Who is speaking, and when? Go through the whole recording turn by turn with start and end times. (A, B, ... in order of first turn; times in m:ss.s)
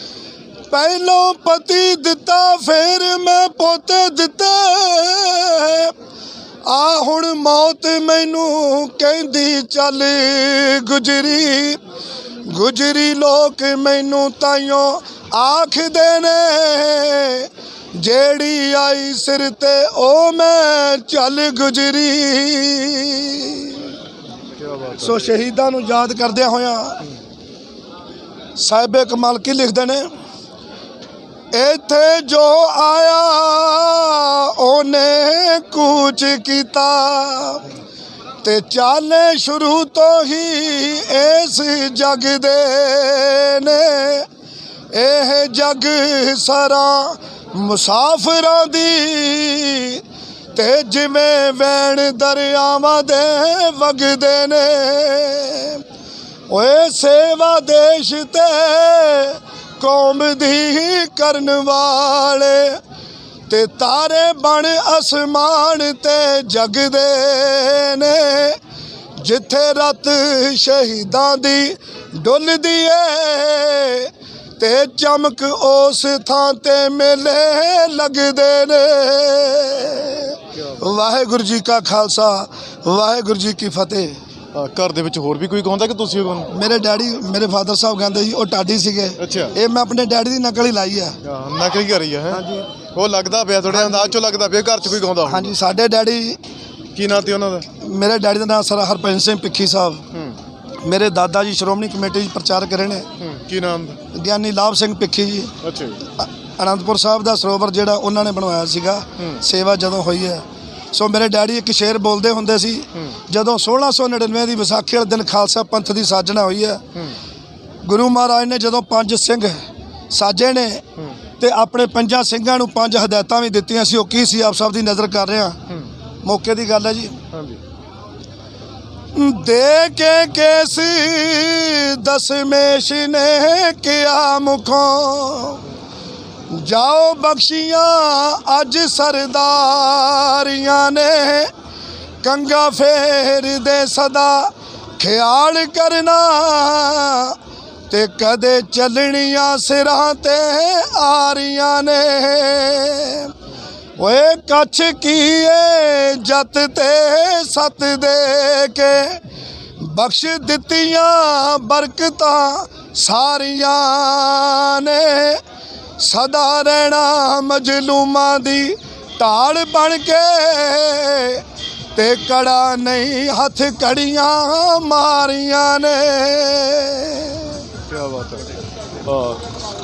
0:00.7-0:05.9 A
0:06.6-0:11.8 A
0:12.4-0:23.9 A
0:24.6-0:25.2 B
0:25.0-0:27.0 A
0:28.6-0:30.1 A
0:31.5-0:37.6 A
0:38.4-0:44.2 A
0:44.9-0:50.0 A
0:50.5-0:55.8 A
0:56.5-1:02.8 A
1:03.5-1:08.6 A
1:09.2-1:24.2 A
1:24.5-1:26.5 B
1:26.5-1:31.2 A
1:29.2-1:29.5 B
1:31.2-1:32.4 B
1:32.3-1:32.7 A
1:32.9-1:35.5 B
1:33.7-1:34.1 A
1:35.2-1:36.4 A
1:36.9-1:37.7 B
1:37.8-1:40.0 A
1:40.8-1:43.1 A
1:43.2-1:44.0 B
1:44.1-1:45.5 A
1:45.6-1:46.0 B
1:46.2-1:56.8 A
1:57.8-1:59.6 A
2:00.1-2:00.8 A
2:01.4-2:05.6 A
2:06.2-2:07.2 A
2:07.3-2:07.6 B
2:09.1-2:15.6 A
2:16.5-2:21.5 A
2:22.2-2:27.4 A
2:27.9-2:33.3 A
2:34.0-2:39.2 A
2:39.8-2:45.4 A
2:46.0-2:51.4 A
2:51.9-2:57.5 A
2:57.9-2:58.5 B
2:59.0-2:59.4 B